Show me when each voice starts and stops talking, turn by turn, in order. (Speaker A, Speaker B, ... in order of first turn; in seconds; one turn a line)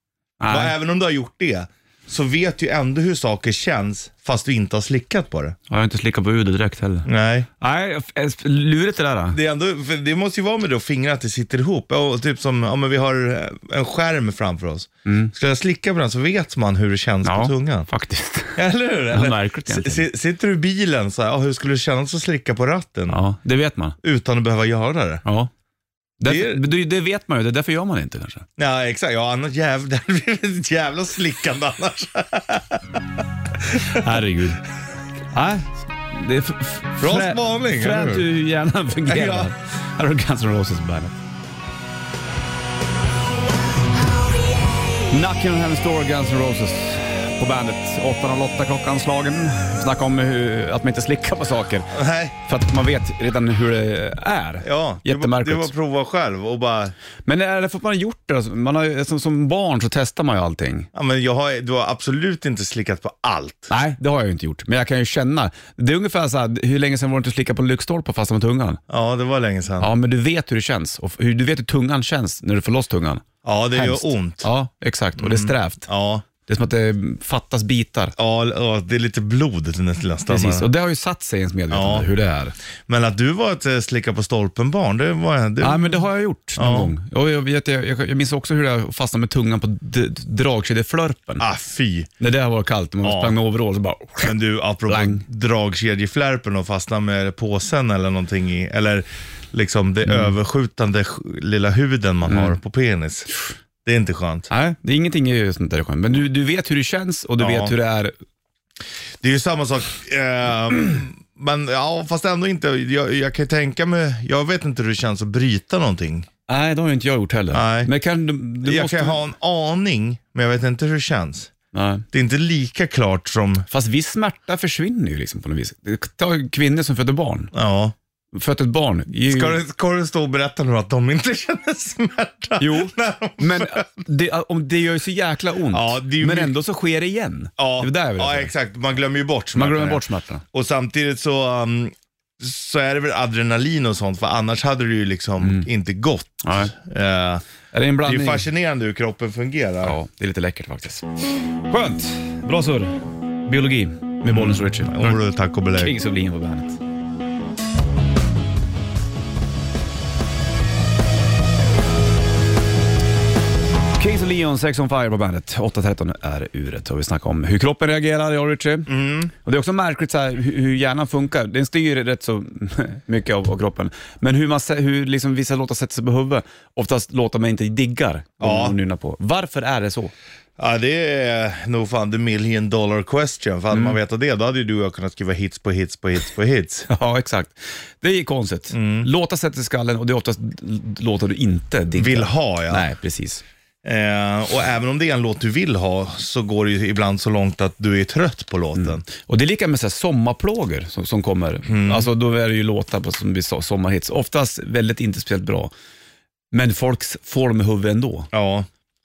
Speaker A: 0.4-0.7
Speaker B: 0.5-5.6
Speaker A: 5.7-7.1
Speaker B: 7.0-7.5
Speaker A: 7.6-9.4
Speaker B: 9.3-17.9
Speaker A: 15.1-15.3
Speaker A: 17.2-18.6
Speaker B: 18.6-23.2
Speaker A: 19.1-20.1
Speaker A: 23.1-24.0
Speaker B: 24.0-25.2
Speaker A: 25.2-25.5
Speaker A: 26.2-28.5
Speaker B: 26.2-26.6
Speaker B: 28.6-32.8
Speaker B: 33.7-34.0
Speaker A: 33.9-34.6
Speaker A: 35.3-41.2
Speaker B: 37.0-38.3
Speaker B: 39.1-39.5
Speaker A: 45.1-51.9
Speaker B: 51.9-52.4
Speaker A: 52.5-55.7
Speaker B: 54.6-57.0
Speaker A: 57.3-60.9
Speaker B: 60.9-63.7
Speaker A: 63.7-68.8
Speaker B: 68.9-69.9
Speaker A: 69.8-75.9
Speaker B: 73.4-74.5
Speaker B: 75.2-76.2
Speaker A: 76.5-78.2
Speaker B: 78.2-80.7
Speaker A: 80.3-82.6
Speaker B: 81.7-82.1
Speaker B: 82.9-86.0
Speaker A: 85.6-91.5
Speaker B: 86.6-86.9
Speaker B: 91.4-92.1
Speaker A: 92.2-94.3
Speaker B: 93.0-93.4
Speaker B: 94.2-103.3
Speaker A: 94.9-95.2
Speaker A: 100.1-100.3
Speaker A: 102.3-102.6
Speaker B: 103.8-104.5
Speaker A: 104.5-108.1
Speaker B: 107.4-107.8
Speaker B: 109.2-116.3
Speaker A: 116.5-119.2
Speaker B: 117.5-117.9
Speaker B: 118.6-121.5
Speaker A: 121.7-122.1
Speaker B: 122.1-123.7
Speaker A: 123.7-127.5
Speaker B: 127.5-128.0
Speaker A: 128.3-129.6
Speaker B: 129.3-133.9
Speaker A: 132.6-138.5
Speaker B: 135.7-136.5
Speaker B: 137.6-147.4
Speaker A: 139.6-140.4
Speaker A: 145.4-145.7
Speaker A: 146.4-146.7
Speaker A: 147.7-148.5
Speaker B: 148.0-150.0
Speaker A: 149.8-155.2
Speaker B: 154.3-156.0
Speaker A: 155.8-156.8
Speaker A: 164.0-180.1
Speaker B: 168.9-169.3
Speaker B: 178.4-178.8
Speaker B: 180.6-186.9
Speaker A: 183.7-184.0
Speaker A: 186.9-193.4
Speaker B: 188.7-189.1
Speaker B: 192.0-192.9
Speaker B: 193.8-199.0
Speaker A: 198.8-205.7
Speaker B: 201.7-202.1
Speaker A: 206.5-208.3
Speaker B: 208.3-208.7